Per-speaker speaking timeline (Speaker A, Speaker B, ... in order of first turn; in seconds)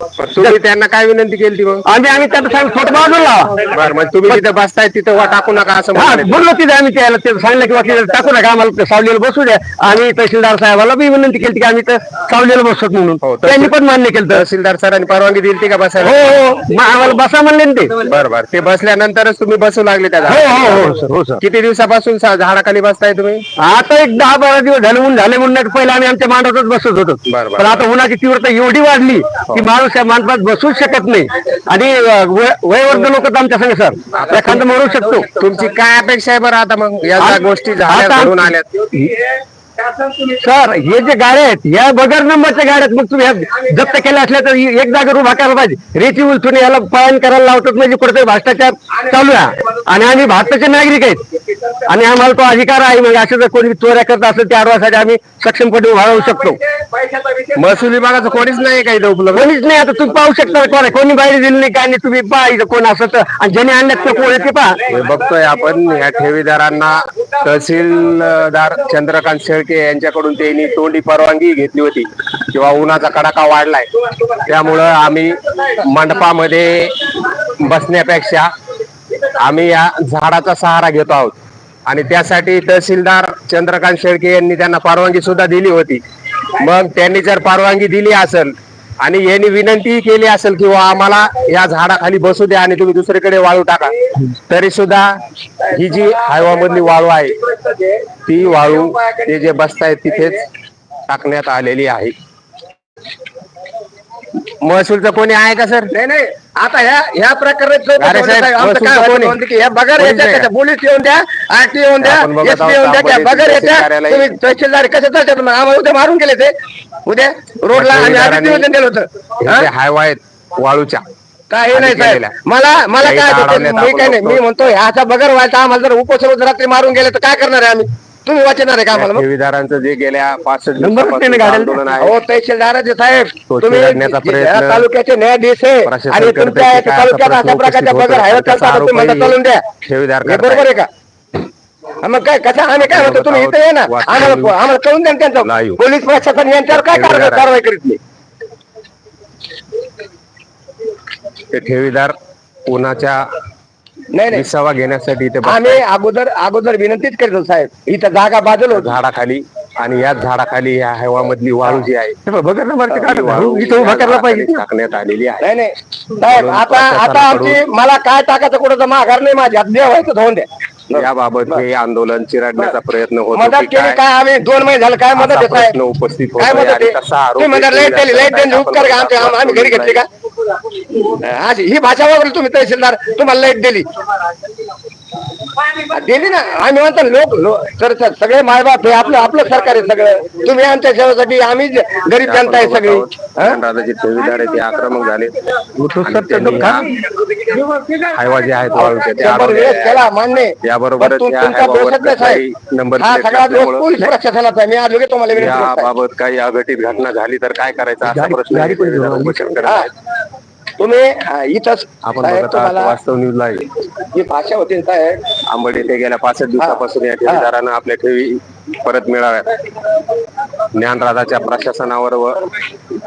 Speaker A: 0.2-1.8, 3.6-6.5, 13.2-13.8, 14.3-16.3, 18.0-23.4, 27.2-27.8, 34.1-34.6, 35.3-38.7, 57.5-59.5, 64.9-73.9, 74.4-78.5, 79.3-81.3, 81.9-86.0, 86.5-95.1, 95.7-97.4, 98.3-100.5, 101.1-102.1, 104.6-105.9, 108.0-109.4, 110.0-110.5, 112.0-114.3, 117.7-118.7, 119.4-121.0, 121.7-122.3, 123.0-124.4, 128.9-132.2, 133.5-134.9, 135.8-140.7, 142.8-144.6, 145.4-145.8, 146.7-147.5, 151.5-152.1, 152.7-153.2, 154.3-155.8, 158.7-162.2, 162.9-165.4, 166.2-167.6, 170.9-174.0, 175.1-180.0, 192.2-195.4, 196.0-196.9, 198.1-200.0, 200.6-204.1, 205.3-209.9, 212.0-213.7, 215.5-219.6, 220.7-222.4
Speaker B: 1.9-3.6, 5.9-14.4, 16.1-17.9, 20.3-21.4, 23.6-35.3, 37.2-38.5, 40.3-51.2, 51.8-56.6, 59.3-64.8, 130.8-131.8, 162.5-162.9, 195.9-196.8, 208.8-209.3
Speaker C: 98.6-99.2, 105.9-116.5, 117.0-119.7, 121.5-129.2, 131.9-139.7, 140.2-140.9, 142.0-148.0, 154.1-154.4, 155.4-158.9, 162.3-164.5, 165.4-171.6, 173.3-175.8, 176.4-180.1, 181.0-183.9, 185.8-193.6, 195.8-196.5, 198.8-202.4, 203.0-205.9, 208.1-209.9, 210.8-212.9, 214.1-215.2, 216.6-217.5